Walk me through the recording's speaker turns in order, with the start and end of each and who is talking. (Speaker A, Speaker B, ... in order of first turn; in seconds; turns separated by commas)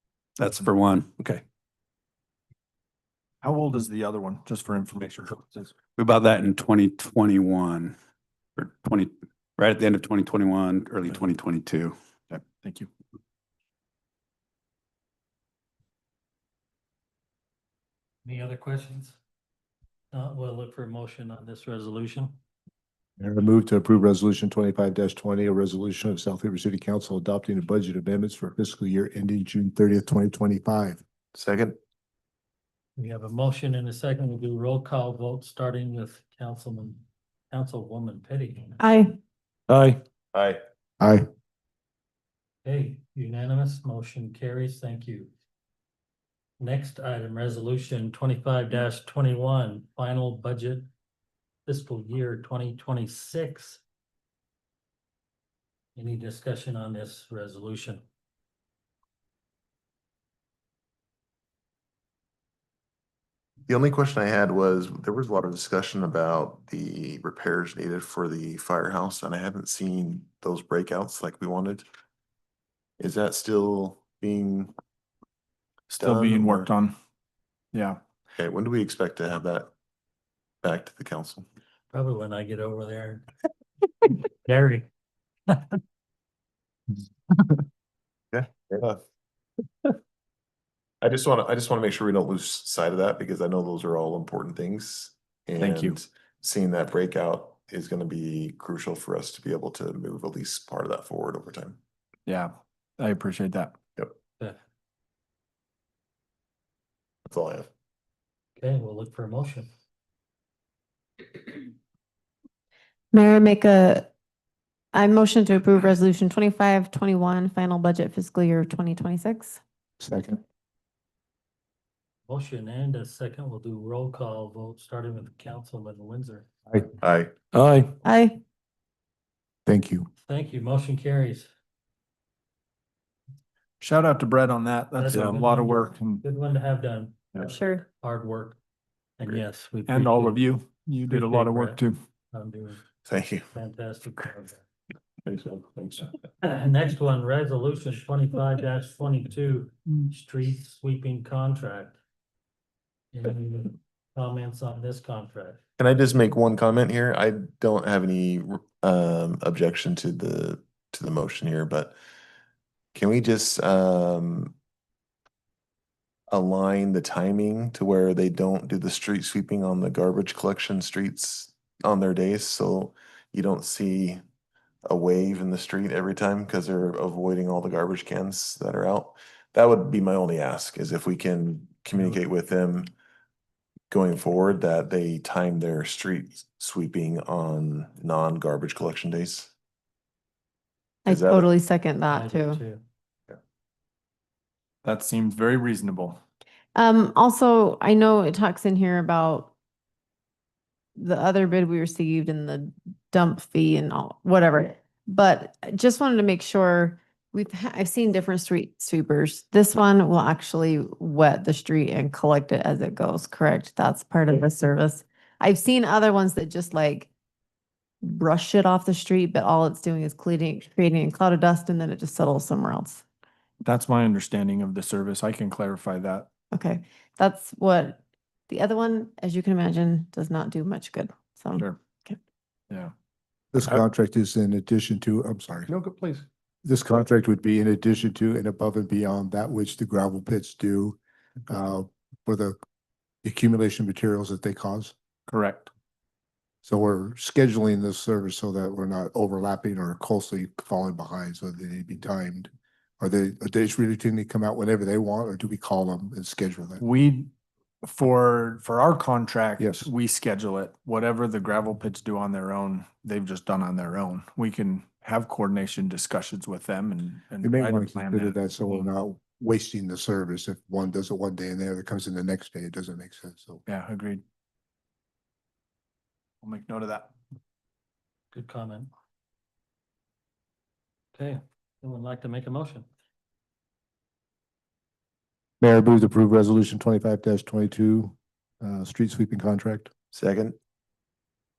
Speaker A: 0.4-1.4, Speaker B: 0.4-1.1, Speaker A: 3.4-5.7, Speaker B: 6.0-7.9, Speaker B: 8.6-11.9, Speaker A: 12.3-12.9, Speaker C: 18.2-19.2, Speaker C: 20.1-22.4, Speaker D: 23.2-31.0, Speaker E: 31.4-31.8, Speaker C: 33.0-38.8, Speaker F: 38.8-39.2, Speaker E: 40.3-40.6, Speaker D: 41.0-41.2, Speaker C: 42.6-45.3, Speaker C: 46.6-50.9, Speaker C: 51.7-53.8, Speaker C: 56.0-58.0, Speaker E: 63.7-71.8, Speaker E: 73.0-74.7, Speaker E: 75.9-76.7, Speaker A: 75.9-77.0, Speaker A: 77.7-78.0, Speaker E: 78.3-79.7, Speaker E: 80.6-81.5, Speaker C: 81.9-83.3, Speaker C: 84.1-84.9, Speaker C: 85.5-85.8, Speaker E: 88.3-89.0, Speaker E: 91.0-101.8, Speaker A: 95.6-96.0, Speaker A: 102.3-103.8, Speaker E: 107.3-107.7, Speaker C: 108.6-109.7, Speaker F: 113.1-114.1, Speaker F: 114.9-119.6, Speaker D: 120.0-120.4, Speaker C: 122.3-126.5, Speaker E: 127.0-127.3, Speaker F: 128.1-128.4, Speaker D: 129.7-130.1, Speaker C: 130.2-131.5, Speaker A: 133.8-136.2, Speaker C: 135.0-138.6, Speaker F: 137.4-137.8, Speaker C: 139.2-140.4, Speaker A: 139.9-142.0, Speaker C: 141.1-142.8, Speaker E: 143.1-143.5, Speaker C: 143.5-144.6, Speaker E: 145.3-146.0, Speaker C: 146.4-152.0, Speaker C: 153.1-155.6, Speaker E: 155.8-161.9, Speaker E: 162.9-164.5, Speaker E: 166.3-174.2, Speaker E: 174.9-182.9, Speaker E: 183.9-189.5, Speaker F: 191.1-192.6, Speaker E: 191.1-191.5, Speaker C: 192.1-192.8, Speaker A: 194.8-196.2, Speaker F: 196.8-199.5, Speaker F: 201.0-217.1, Speaker F: 218.0-223.0, Speaker A: 223.6-226.3, Speaker F: 226.5-232.2, Speaker A: 231.6-231.8, Speaker D: 233.5-235.7, Speaker E: 235.7-236.2, Speaker D: 236.7-241.0, Speaker D: 241.5-242.6, Speaker D: 243.2-244.9, Speaker A: 245.3-245.7, Speaker D: 246.7-256.8, Speaker A: 256.8-257.3, Speaker A: 257.8-268.9, Speaker D: 259.6-259.9, Speaker D: 267.4-273.6, Speaker A: 273.7-274.2, Speaker A: 276.4-277.1, Speaker C: 278.3-278.9, Speaker C: 281.1-282.9, Speaker D: 285.6-289.9, Speaker E: 290.1-290.6